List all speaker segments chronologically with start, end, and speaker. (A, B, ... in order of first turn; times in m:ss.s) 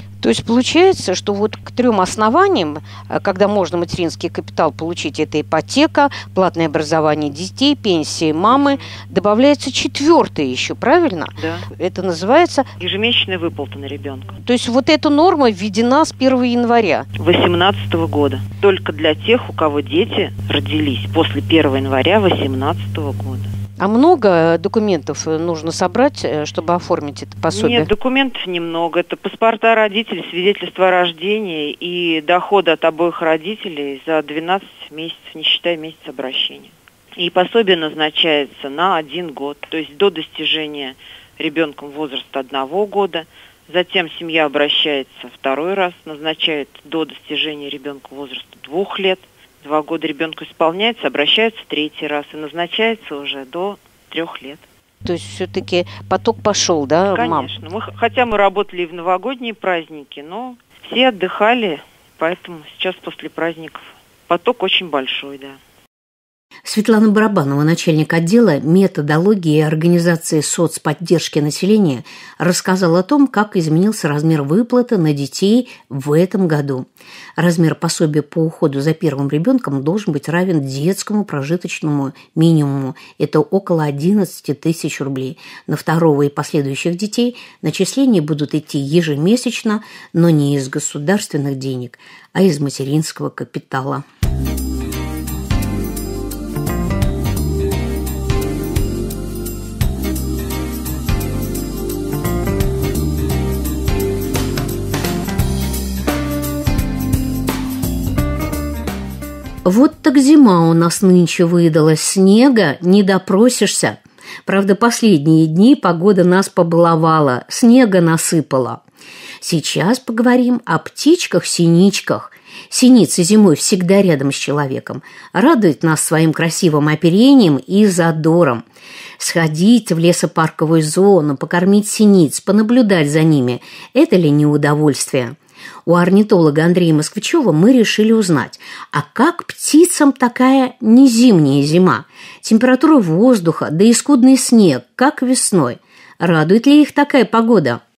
0:00.2-0:12.7 A
0:08.5-0:08.9 B
0:11.4-0:11.6 B
0:12.8-0:14.4 B
0:14.4-0:17.1 A
0:17.2-0:23.5 B
0:23.8-0:27.9 A
0:27.5-0:54.6 B
0:55.0-0:57.5 A
0:57.1-1:05.6 B
1:06.6-1:34.0 C
1:49.6-1:58.8 C
1:59.4-2:08.6 C
2:09.2-2:27.8 C